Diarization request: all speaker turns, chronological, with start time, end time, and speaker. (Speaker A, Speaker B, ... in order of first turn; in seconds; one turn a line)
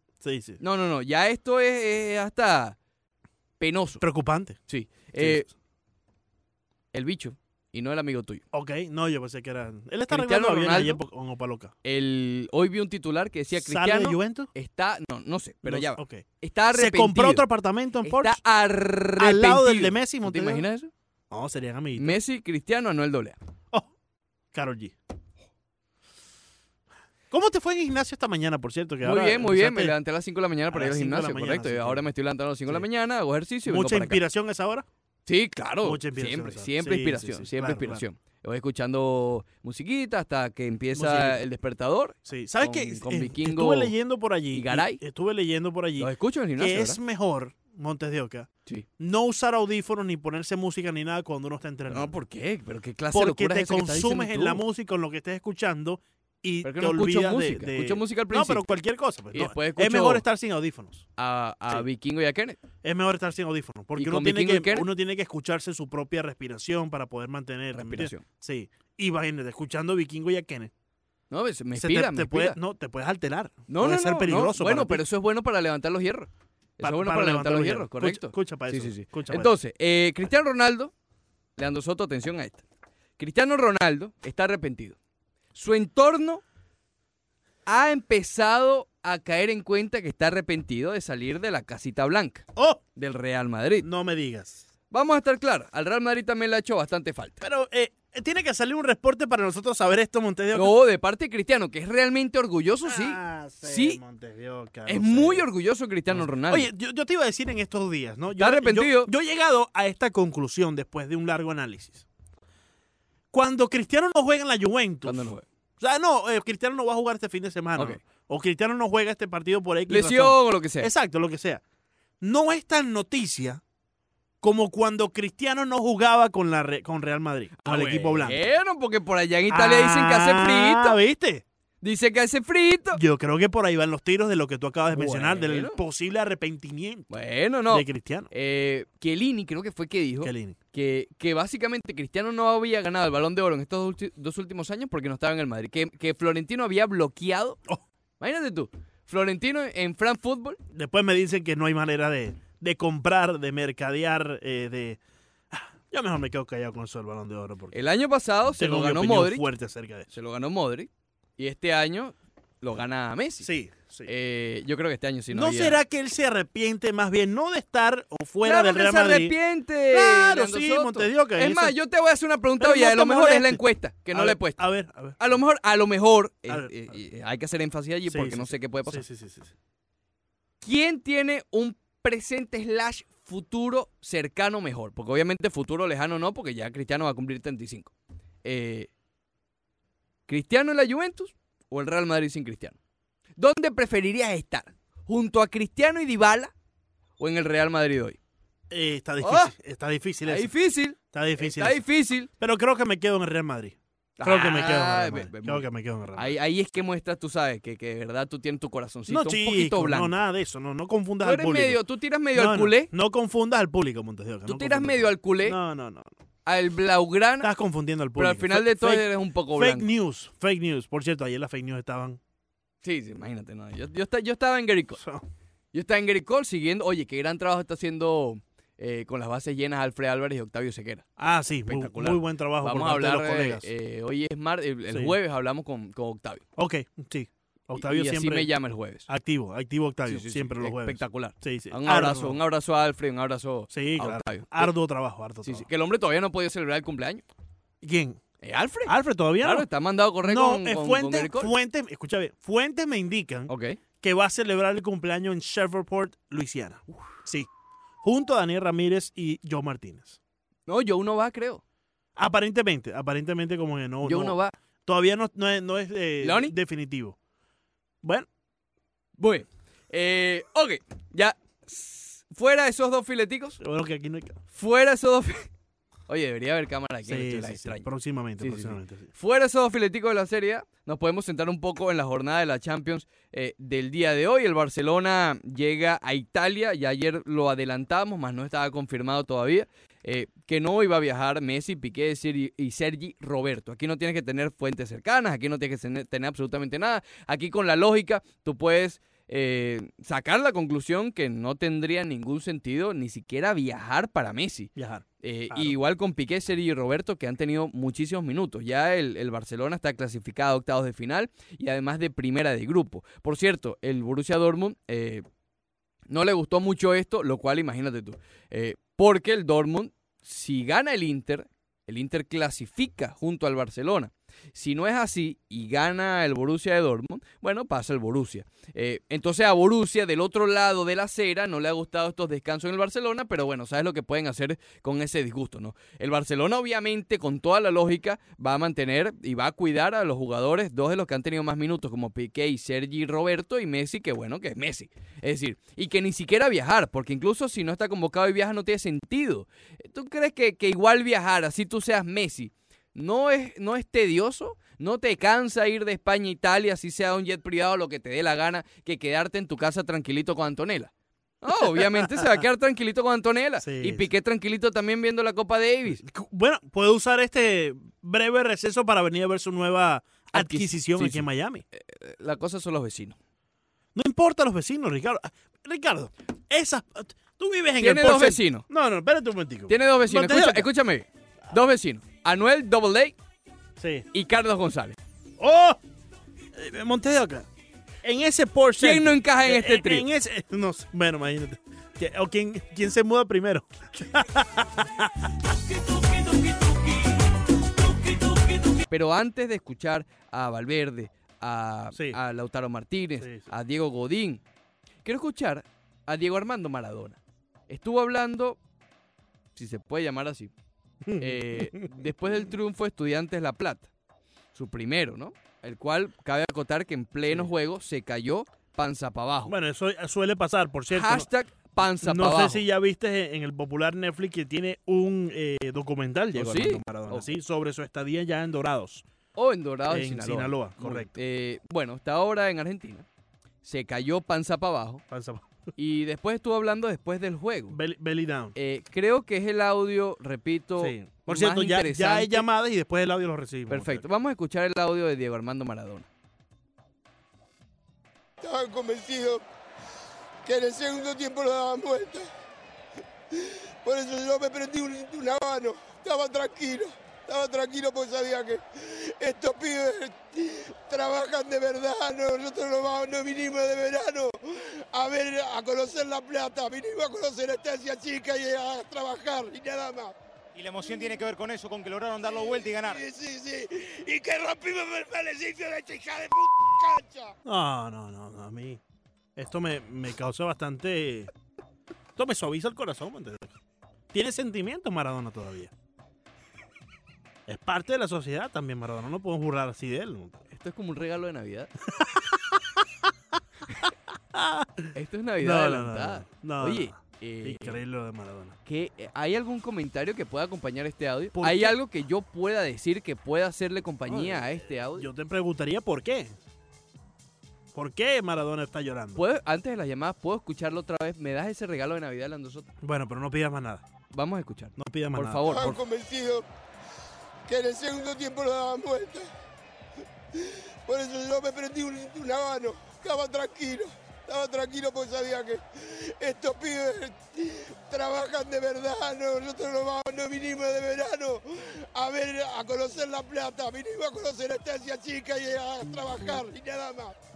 Speaker A: 0.2-0.6
Speaker B: 0.6-2.8
Speaker B: 3.6-4.0
Speaker A: 4.0-4.6
Speaker B: 4.7-5.5
Speaker A: 5.2-5.4
Speaker B: 6.9-8.4
Speaker A: 8.5-11.7
Speaker B: 10.1-11.0
Speaker B: 11.8-17.5
Speaker A: 13.6-14.5
Speaker A: 15.6-18.4
Speaker B: 18.0-20.9
Speaker A: 19.2-20.6
Speaker A: 21.3-22.2
Speaker B: 22.0-23.4
Speaker A: 24.5-24.9
Speaker A: 27.3-30.0
Speaker B: 29.0-34.2
Speaker A: 30.7-32.0
Speaker A: 33.7-34.9
Speaker B: 35.3-43.9
Speaker A: 35.8-38.0
Speaker A: 40.9-41.4
Speaker A: 42.3-52.1
Speaker B: 44.5-45.0
Speaker B: 46.0-47.0
Speaker B: 51.9-54.6
Speaker A: 53.1-61.1
Speaker B: 56.6-58.6
Speaker B: 59.3-60.2
Speaker B: 61.2-62.6
Speaker A: 62.8-70.7
Speaker B: 64.0-64.9
Speaker B: 67.7-68.2
Speaker B: 71.3-72.6
Speaker A: 71.8-75.0
Speaker B: 73.7-80.9
Speaker A: 76.8-79.5
Speaker B: 81.6-82.6
Speaker B: 83.2-85.0
Speaker B: 85.5-86.4
Speaker B: 87.7-92.5
Speaker A: 92.5-92.8
Speaker B: 93.0-93.9
Speaker A: 93.8-94.6
Speaker B: 94.9-97.4
Speaker A: 97.4-100.8
Speaker B: 100.5-104.0
Speaker A: 102.8-105.5
Speaker B: 104.9-106.7
Speaker A: 106.1-112.1
Speaker B: 108.3-109.1
Speaker A: 113.3-121.6
Speaker B: 115.0-115.5
Speaker B: 119.9-120.9
Speaker A: 122.2-123.6
Speaker A: 124.4-128.5
Speaker B: 127.6-131.0
Speaker A: 129.5-131.4
Speaker B: 131.8-133.0
Speaker A: 132.9-137.1
Speaker B: 134.9-135.8
Speaker B: 137.1-147.6
Speaker A: 137.7-138.3
Speaker A: 140.2-140.6
Speaker B: 148.2-150.6
Speaker A: 150.7-155.0
Speaker A: 155.5-157.8
Speaker B: 157.7-159.5
Speaker A: 158.6-160.1
Speaker B: 160.1-163.5
Speaker A: 163.4-164.1
Speaker B: 164.1-165.8
Speaker A: 165.3-169.3
Speaker B: 168.4-174.6
Speaker A: 169.9-171.8
Speaker A: 172.6-175.2
Speaker B: 175.2-179.1
Speaker A: 176.5-176.7
Speaker A: 178.1-179.5
Speaker B: 180.6-187.9
Speaker B: 188.4-188.9
Speaker B: 190.3-192.8
Speaker B: 193.4-196.5
Speaker B: 197.2-198.2
Speaker A: 198.7-200.5
Speaker B: 199.2-199.5
Speaker B: 200.3-202.3
Speaker A: 201.1-201.8
Speaker A: 202.4-206.3
Speaker B: 204.2-210.2
Speaker A: 209.1-211.8
Speaker B: 211.2-212.9
Speaker A: 212.3-216.1
Speaker B: 214.5-215.6
Speaker B: 216.5-217.5
Speaker A: 217.4-222.2
Speaker B: 218.2-219.9
Speaker B: 222.8-225.0
Speaker B: 225.7-231.1
Speaker A: 231.2-233.7
Speaker B: 231.7-236.4
Speaker A: 236.6-238.5
Speaker B: 237.8-239.1
Speaker A: 239.1-242.4
Speaker B: 240.1-244.7
Speaker A: 243.7-245.7
Speaker B: 245.4-247.2
Speaker A: 247.8-248.2
Speaker B: 248.4-251.5
Speaker A: 248.9-249.7
Speaker A: 250.2-253.5
Speaker B: 253.5-253.8
Speaker A: 254.0-257.5
Speaker A: 258.0-260.2
Speaker B: 260.7-261.6
Speaker A: 262.2-267.2
Speaker B: 264.0-264.6
Speaker B: 266.2-266.6
Speaker B: 269.2-273.6
Speaker A: 273.6-274.4
Speaker B: 274.6-275.5
Speaker B: 276.1-277.9
Speaker A: 277.1-279.1
Speaker B: 278.4-315.2
Speaker A: 304.8-305.8
Speaker B: 316.1-360.9
Speaker B: 361.4-366.0
Speaker A: 363.6-364.1
Speaker A: 366.0-371.6
Speaker B: 370.3-373.2
Speaker A: 373.9-380.7
Speaker B: 377.8-378.6
Speaker B: 379.7-383.1
Speaker A: 383.8-384.1
Speaker B: 384.1-385.0
Speaker A: 385.4-385.8
Speaker A: 386.6-387.5
Speaker A: 388.0-395.3
Speaker B: 388.8-390.1
Speaker B: 398.8-404.4
Speaker A: 403.2-403.5
Speaker B: 405.1-408.6
Speaker B: 409.6-410.5
Speaker A: 411.0-411.9
Speaker B: 411.2-413.9
Speaker B: 414.5-419.6
Speaker A: 419.5-421.3
Speaker B: 420.9-422.6
Speaker A: 422.0-429.1
Speaker B: 426.4-427.3
Speaker B: 429.4-433.1
Speaker A: 429.9-431.1
Speaker B: 433.6-435.0
Speaker A: 435.1-435.5
Speaker B: 435.8-437.8
Speaker A: 437.7-438.6
Speaker B: 438.6-442.5
Speaker A: 440.8-444.0
Speaker B: 443.7-446.1
Speaker C: 448.4-449.4
Speaker C: 450.4-452.3
Speaker C: 453.3-470.1
Speaker D: 470.6-473.0
Speaker C: 472.3-477.3
Speaker A: 477.4-478.8
Speaker A: 479.4-481.3
Speaker A: 482.2-483.5
Speaker A: 484.1-485.7
Speaker A: 487.5-490.4
Speaker B: 490.5-491.7
Speaker A: 492.0-492.8
Speaker A: 494.3-498.6
Speaker B: 494.9-497.8
Speaker B: 498.7-505.1
Speaker A: 501.3-501.8
Speaker A: 504.1-506.4
Speaker A: 507.7-509.2
Speaker B: 509.2-512.7
Speaker A: 512.8-513.9
Speaker B: 514.1-515.8
Speaker A: 514.8-515.8
Speaker C: 515.5-516.5
Speaker C: 517.5-519.3
Speaker C: 520.3-537.1